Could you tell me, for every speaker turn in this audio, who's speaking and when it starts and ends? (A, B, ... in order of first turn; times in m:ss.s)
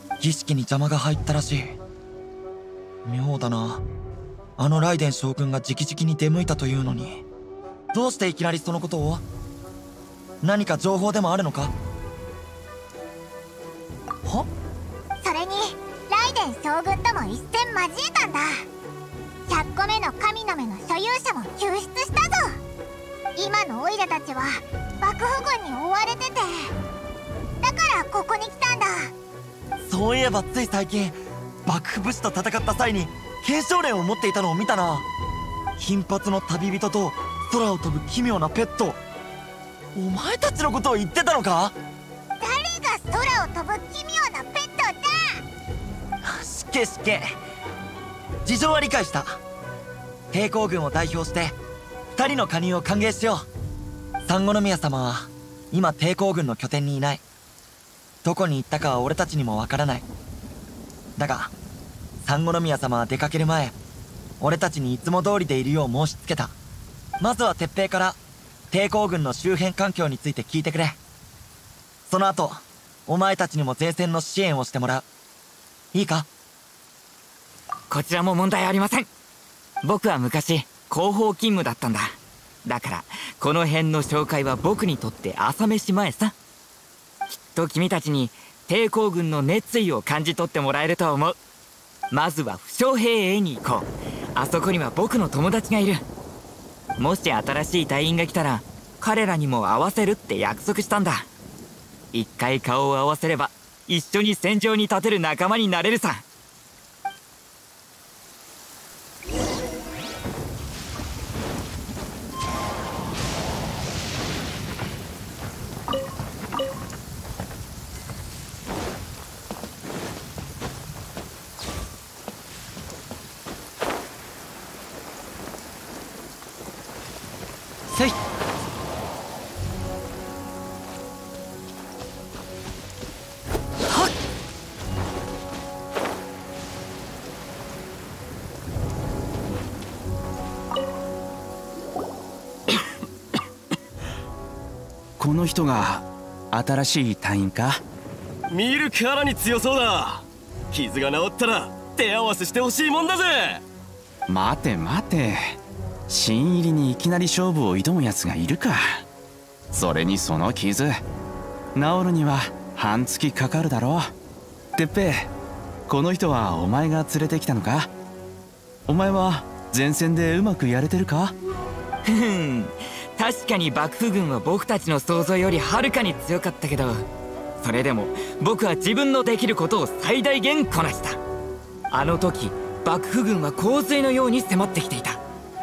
0:00.2-0:01.8 A
0:03.0-0:03.8 A
0:04.6-0:07.2 A
0:07.9-0:09.2 A
0:10.4-0:11.7 A
0:15.2-0:18.6 B
0:19.5-0:22.6 B
0:23.4-0:26.7 B
0:27.6-0:29.1 B
0:29.8-0:35.0 A
0:35.8-0:39.0 A
0:39.9-0:41.7 A
0:42.4-0:45.4 B
0:46.2-0:47.3 A
0:48.4-0:49.4 A
0:50.3-0:51.5 A
0:52.2-0:53.4 A
0:54.2-0:57.2 A
0:58.2-1:00.0 A
1:01.2-1:01.5 A
1:02.2-1:03.7 A
1:04.4-1:06.5 A
1:07.2-1:08.2 A
1:08.7-1:11.0 A
1:12.1-1:15.0 A
1:15.9-1:16.3 A
1:17.9-1:19.1 C
1:19.8-1:26.3 C
1:27.3-1:31.4 C
1:32.1-1:36.0 C
1:37.0-1:41.3 C
1:42.1-1:46.2 C
2:25.2-2:27.8 D
2:28.5-2:30.2 E
2:30.7-2:32.9 E
2:34.3-2:35.6 D
2:36.1-2:39.0 D
2:39.7-2:41.0 D
2:41.7-2:44.1 D
2:44.8-2:45.3 D
2:45.9-2:47.9 D
2:48.9-2:51.3 D
2:52.0-2:57.0 C
2:57.6-3:01.2 C
3:01.9-3:05.2 C